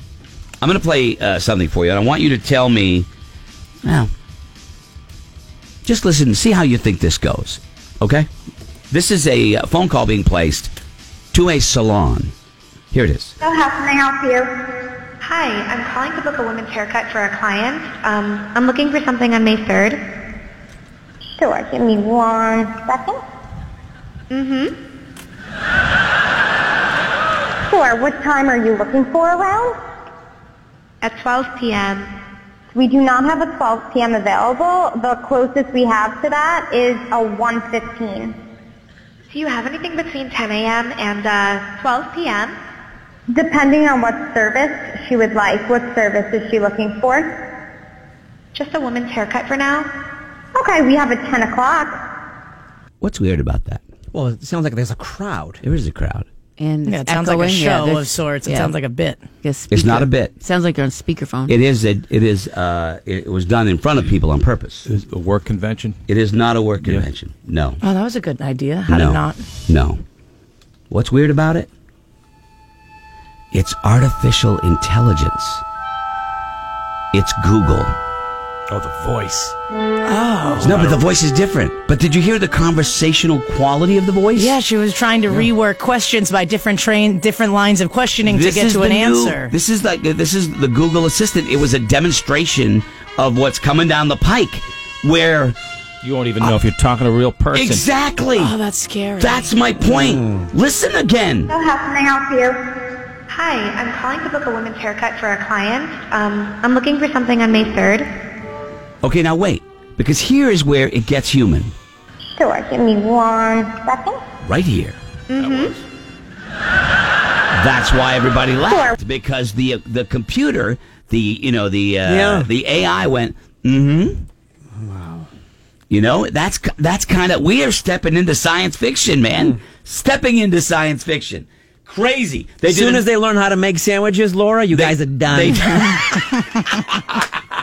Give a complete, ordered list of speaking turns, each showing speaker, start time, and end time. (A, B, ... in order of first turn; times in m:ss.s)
0:00.6-0:03.1 A
0:05.8-0:08.3 A
0:08.9-0:10.7 A
0:11.3-0:12.3 A
0:12.9-0:13.4 A
0:13.4-0:14.5 B
0:15.2-0:20.1 C
0:21.4-0:23.2 B
0:24.3-0:24.8 C
0:27.7-0:29.8 B
0:31.0-0:32.1 C
0:32.7-0:38.4 B
0:39.3-0:42.6 C
0:43.3-0:47.3 B
0:48.6-0:49.9 C
0:50.6-0:52.0 B
0:53.0-0:53.8 A
0:54.1-0:55.6 D
0:55.6-0:56.3 A
0:56.6-0:58.7 E
0:56.8-0:59.3 F
0:59.4-1:01.5 E
0:59.7-1:00.4 A
1:01.5-1:04.9 A
1:04.9-1:06.0 G
1:06.1-1:07.8 A
1:07.8-1:09.4 F
1:08.9-1:10.0 A
1:10.9-1:11.7 A
1:13.5-1:15.6 A
1:17.1-1:17.9 A
1:18.7-1:19.5 G
1:20.0-1:20.8 F
1:20.6-1:21.1 G
1:20.6-1:24.6 A
1:24.3-1:29.5 F
1:28.2-1:35.6 A
1:36.0-1:37.9 G
1:37.5-1:38.6 A
1:38.4-1:39.5 F
1:39.2-1:41.5 A
1:41.5-1:42.6 B
1:43.3-1:48.1 C
1:49.0-1:51.7 A
1:52.4-1:54.2 B
1:54.4-1:55.0 A
1:55.3-1:55.7 C
1:55.4-1:55.7 G
1:57.6-2:04.3 A
1:58.7-1:59.0 B
2:02.1-2:02.5 D
2:05.9-2:13.0 A
2:12.7-2:15.5 D
2:14.7-2:17.2 A